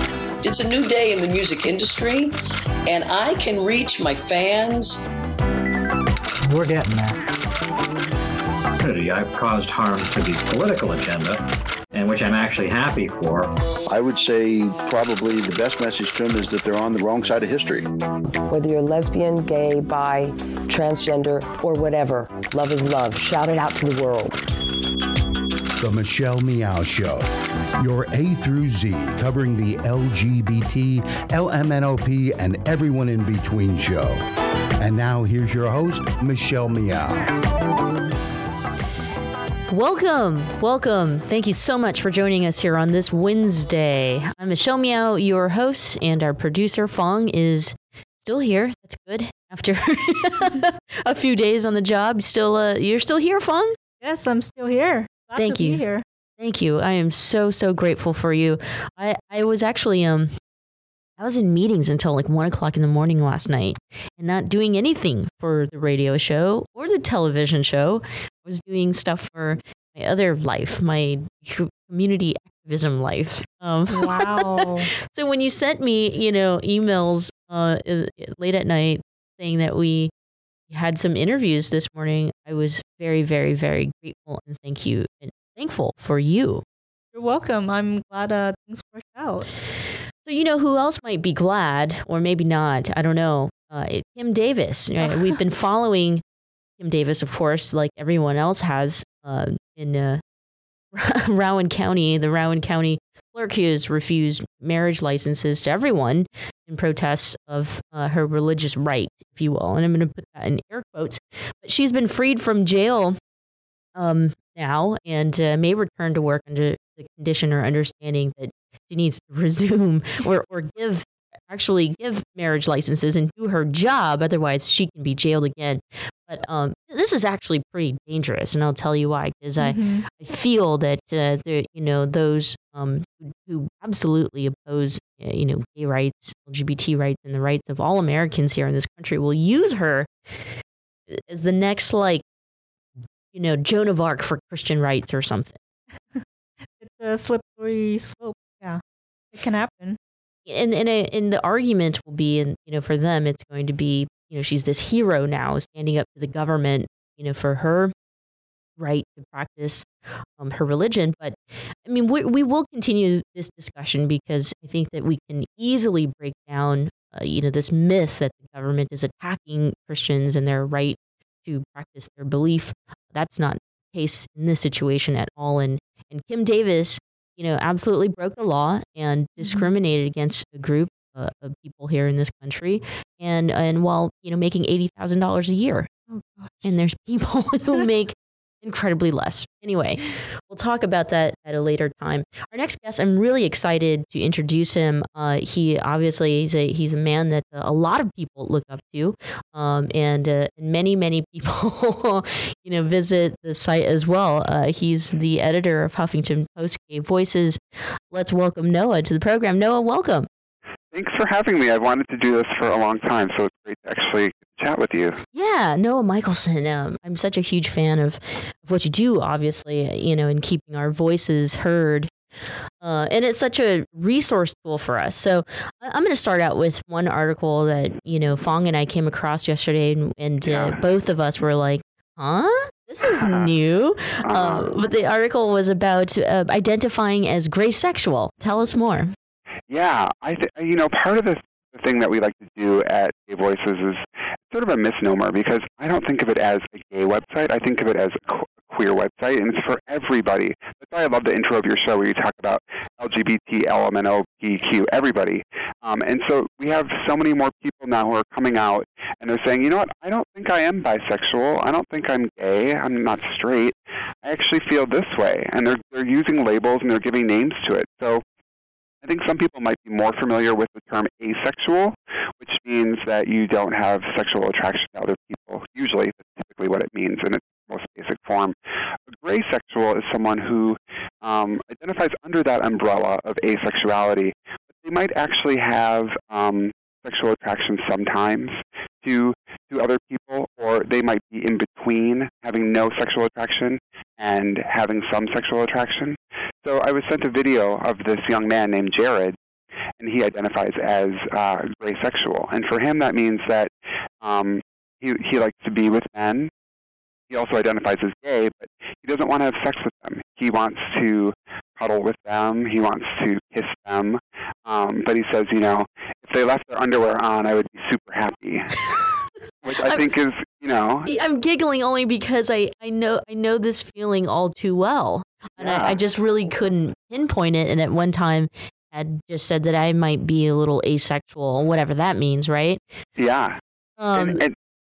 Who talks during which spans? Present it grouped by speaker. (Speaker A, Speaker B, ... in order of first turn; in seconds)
Speaker A: 0.4-5.0
Speaker B: 8.8-13.6
Speaker C: 13.9-17.9
Speaker D: 18.5-24.4
Speaker E: 25.8-34.2, 34.8-37.3
Speaker F: 39.7-53.8, 55.4-55.8, 56.4-60.4, 61.2-80.1, 80.7-86.6, 90.2-96.2, 96.8-100.2, 100.9-113.2, 114.0-140.1, 141.1-142.2, 143.3-145.6, 150.5-157.9, 158.8-159.9, 160.4-185.9, 186.6-207.6, 208.1-210.3, 215.3-222.1, 222.8-239.1, 321.1-332.8, 334.0-334.4
Speaker G: 54.0-56.0, 73.9-74.9, 87.1-89.5, 129.6-130.1, 146.8-148.8, 149.3-150.0, 179.4-179.7, 186.1-186.7
Speaker H: 210.9-215.2, 230.4-230.8, 233.1-233.5, 234.2-234.7, 239.7-268.2, 269.0-278.6, 279.1-299.4, 300.0-306.5, 307.3-318.7, 319.6-321.1, 325.6-326.0, 333.2-333.6, 334.1-334.5